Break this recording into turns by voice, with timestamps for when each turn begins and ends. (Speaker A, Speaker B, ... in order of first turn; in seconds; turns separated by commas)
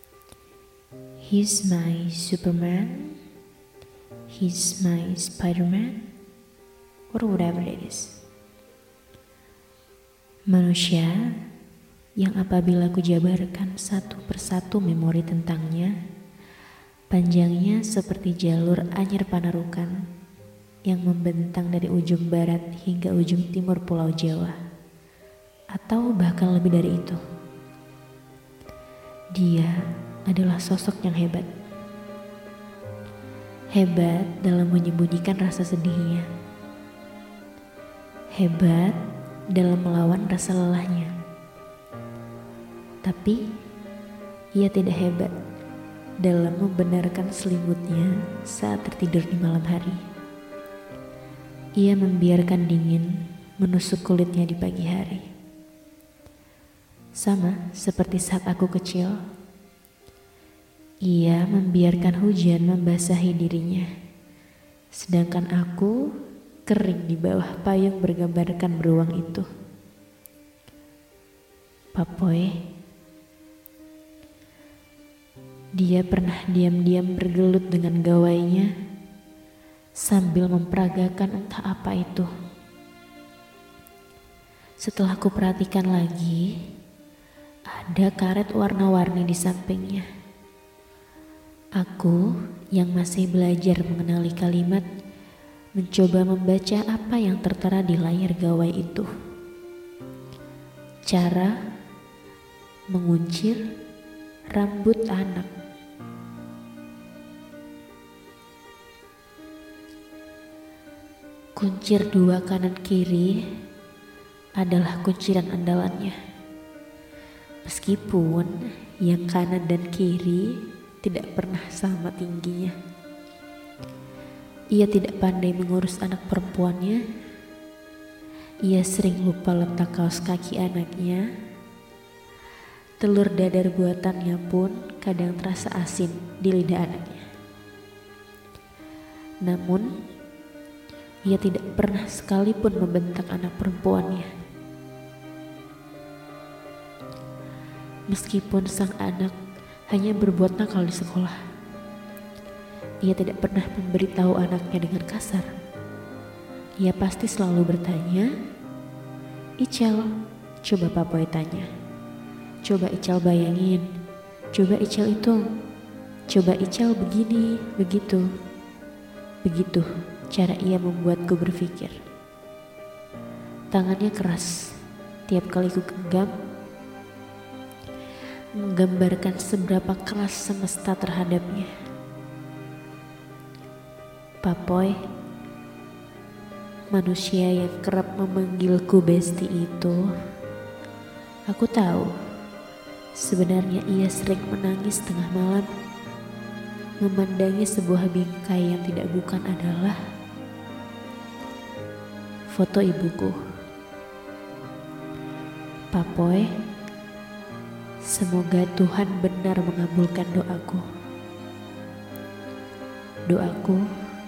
Speaker A: 1.2-3.1, Speaker A: 4.3-6.0, Speaker A: 7.1-8.2, Speaker A: 10.5-11.2, Speaker A: 12.2-15.9, Speaker A: 17.1-19.9, Speaker A: 20.9-24.6, Speaker A: 25.7-27.2, Speaker A: 29.3-29.7, Speaker A: 30.3-31.5, Speaker A: 33.7-36.2, Speaker A: 38.4-39.0, Speaker A: 39.5-41.1, Speaker A: 43.0-43.4, Speaker A: 44.6-45.3, Speaker A: 46.2-50.0, Speaker A: 51.8-55.3, Speaker A: 57.2-59.2, Speaker A: 61.1-63.9, Speaker A: 64.9-66.0, Speaker A: 66.7-69.5, Speaker A: 71.9-72.5, Speaker A: 75.8-78.7, Speaker A: 80.0-82.3, Speaker A: 84.8-86.5, Speaker A: 87.7-90.0, Speaker A: 91.8-92.2, Speaker A: 92.7-94.8, Speaker A: 95.8-99.1, Speaker A: 101.1-101.5, Speaker A: 102.9-103.6, Speaker A: 104.5-105.5, Speaker A: 111.5-113.3, Speaker A: 114.6-116.2, Speaker A: 117.6-120.4, Speaker A: 121.0-122.7, Speaker A: 124.7-127.0, Speaker A: 128.7-131.2, Speaker A: 133.0-137.2, Speaker A: 139.4-139.9, Speaker A: 141.2-144.3, Speaker A: 148.1-149.3, Speaker A: 149.9-151.4, Speaker A: 153.0-155.5, Speaker A: 156.8-158.3, Speaker A: 159.6-160.0, Speaker A: 160.6-161.7, Speaker A: 162.6-163.8, Speaker A: 164.5-165.4, Speaker A: 166.3-168.2, Speaker A: 169.4-172.0, Speaker A: 173.7-174.5, Speaker A: 175.3-176.3, Speaker A: 178.6-181.7, Speaker A: 184.4-184.9, Speaker A: 186.9-190.0, Speaker A: 191.5-192.1, Speaker A: 193.2-195.7, Speaker A: 197.0-200.0, Speaker A: 202.5-203.3, Speaker A: 205.9-206.4, Speaker A: 208.1-210.8, Speaker A: 213.3-213.8